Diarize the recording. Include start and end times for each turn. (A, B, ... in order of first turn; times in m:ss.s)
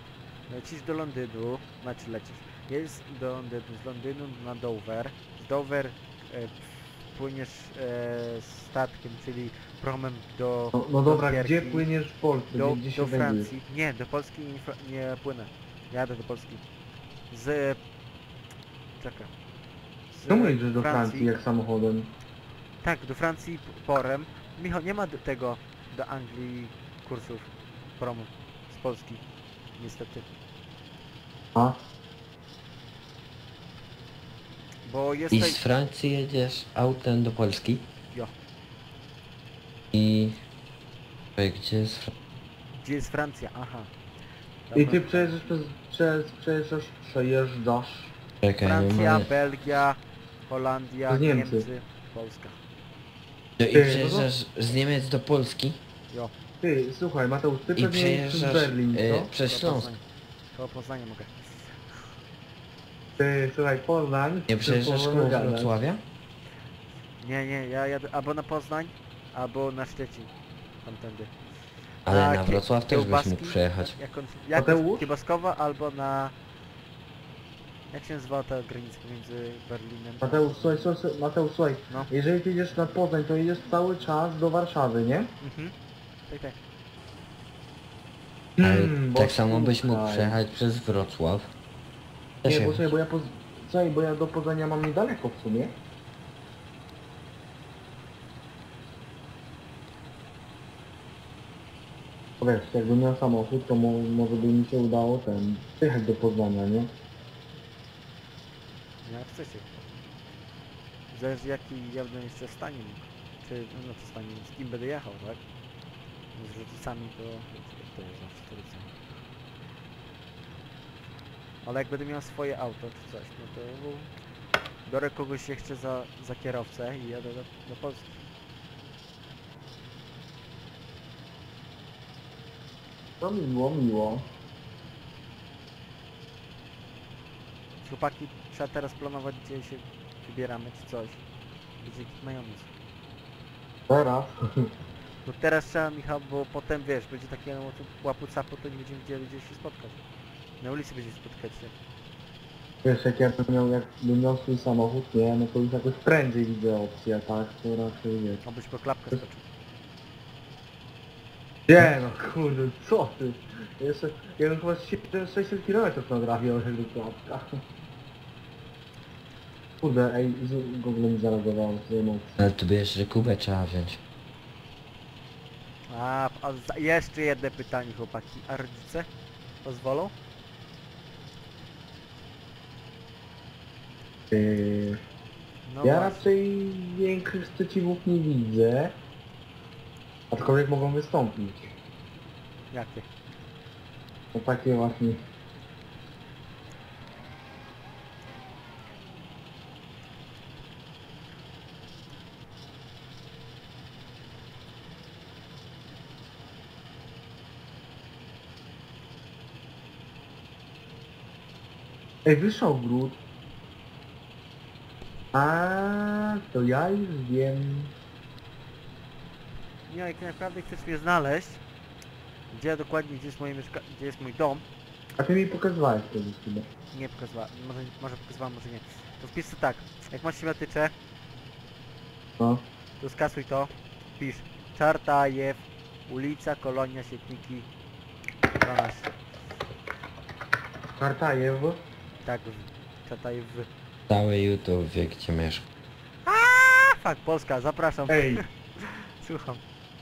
0:00.5-0:11.9 A
0:10.7-0:13.5 B
0:12.5-0:16.6 A
0:17.3-0:17.8 A
0:19.0-0:19.3 A
0:20.1-0:21.3 A
0:20.3-0:22.1 B
0:22.8-0:27.5 A
0:28.0-0:29.2 A
0:29.8-0:30.2 A
0:34.9-0:35.6 A
0:35.3-0:37.8 C
0:39.9-0:40.4 C
0:41.4-0:42.1 C
0:42.8-0:43.9 A
0:44.7-0:45.3 A
0:44.8-0:48.1 B
0:48.4-0:49.3 C
0:48.6-0:50.0 A
0:50.5-0:52.6 A
0:51.1-0:51.6 B
0:53.6-0:55.8 C
0:53.7-0:54.3 B
0:56.6-0:59.3 B
0:57.8-0:59.9 C
0:59.4-1:00.0 A
1:00.6-1:01.3 A
1:03.2-1:05.8 B
1:04.5-1:06.0 C
1:07.2-1:10.3 A
1:10.8-1:11.3 A
1:12.1-1:14.0 C
1:12.1-1:16.3 A
1:14.6-1:15.1 B
1:17.9-1:20.9 A
1:20.2-1:25.3 B
1:25.4-1:25.7 A
1:26.3-1:26.6 A
1:28.6-1:30.4 B
1:28.6-1:31.5 C
1:32.4-1:32.9 C
1:32.4-1:35.7 B
1:42.4-1:46.9 B
1:49.0-1:49.7 A
1:51.1-1:55.4 A
1:56.4-1:58.9 A
2:01.6-2:04.1 A
2:04.9-2:08.2 A
2:13.2-2:14.2 B
2:17.8-2:21.2 A
2:21.8-2:22.7 A
2:23.9-2:24.7 B
2:25.2-2:30.0 A
2:30.6-2:31.7 A
2:32.8-2:38.4 B
2:38.4-2:39.4 A
2:41.7-2:47.6 B
2:49.8-2:52.4 B
2:52.4-2:54.0 C
2:55.9-2:59.1 A
2:59.6-3:00.1 A
3:04.3-3:05.0 B
3:05.7-3:06.3 A
3:05.8-3:08.9 B
3:10.3-3:11.7 B
3:12.7-3:13.0 A
3:14.3-3:15.2 B
3:32.2-3:33.2 B
3:35.3-3:37.9 B
3:39.9-3:41.6 A
3:42.5-3:44.6 A
3:45.2-3:46.7 B
3:46.9-3:50.9 A
3:53.0-3:57.7 A
3:58.6-3:59.1 A
4:01.0-4:01.8 B
4:02.2-4:03.7 A
4:04.1-4:05.6 C
4:06.3-4:09.6 A
4:08.1-4:08.4 B